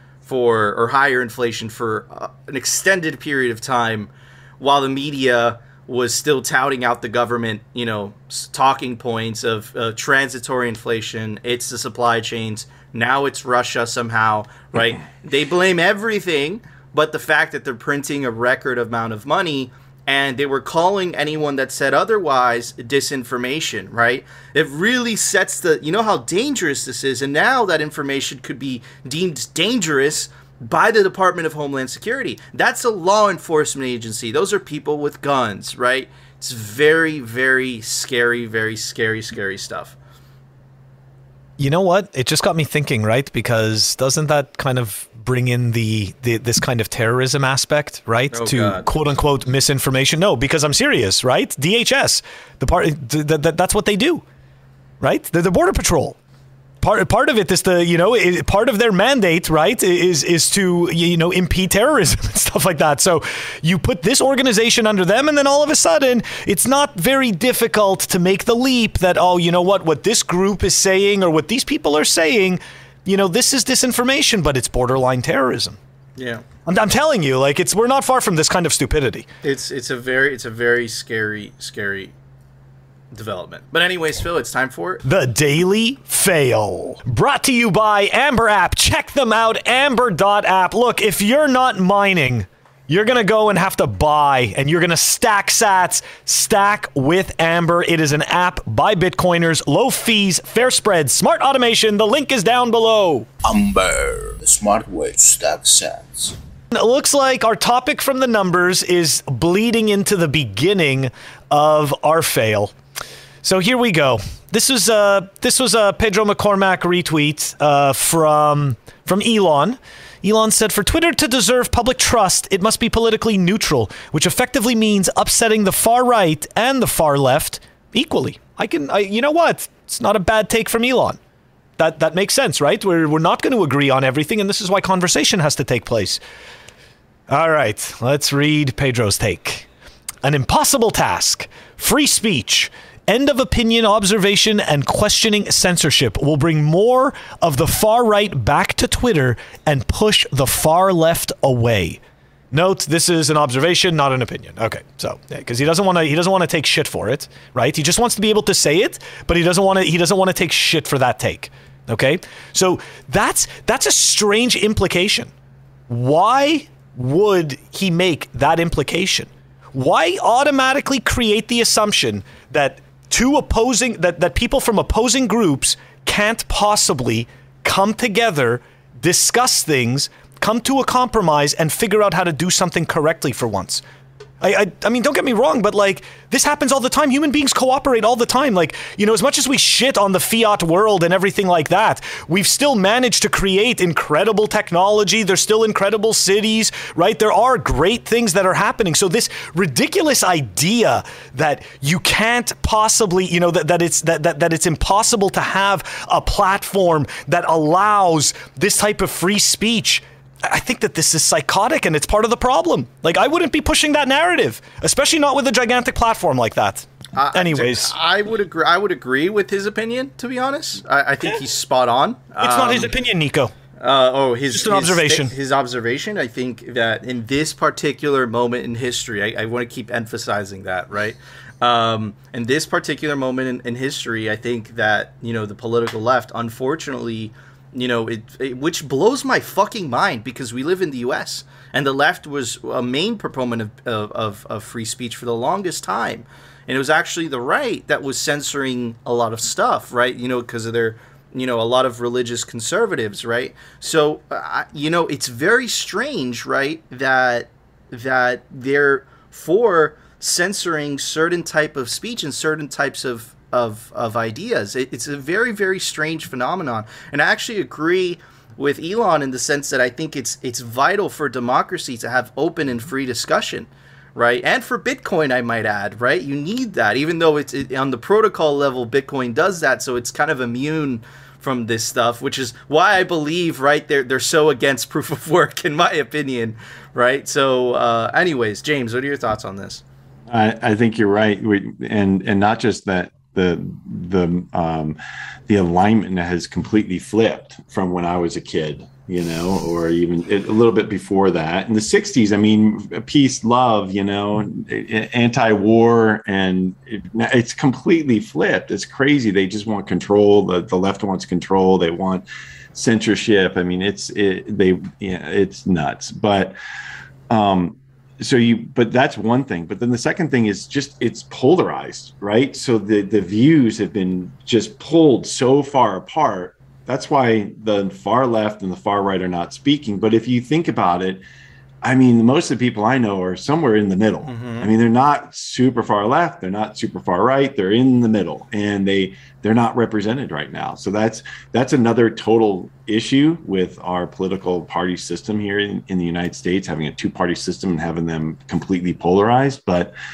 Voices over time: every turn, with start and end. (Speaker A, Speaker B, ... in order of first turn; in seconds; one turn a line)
Speaker A: 0.2-40.0
Speaker B: 41.6-54.2
Speaker A: 48.3-48.9
Speaker B: 55.0-56.2
Speaker B: 56.8-75.8
Speaker A: 76.2-76.4
Speaker B: 76.7-79.3
Speaker A: 79.4-82.1
Speaker A: 83.1-85.0
Speaker B: 85.0-103.3
Speaker C: 103.4-106.3
Speaker B: 106.7-112.7
Speaker B: 113.4-131.2
Speaker B: 131.8-136.2
Speaker B: 137.3-139.7
Speaker B: 140.2-152.0
Speaker B: 152.5-165.3
Speaker B: 165.9-183.8
Speaker B: 184.4-217.9
Speaker A: 217.2-222.9
Speaker B: 222.4-223.5
Speaker A: 223.8-289.8
Speaker B: 224.5-225.3
Speaker D: 290.3-295.0
Speaker D: 295.5-316.6
Speaker D: 317.3-331.2
Speaker D: 331.8-349.9
Speaker A: 334.3-334.7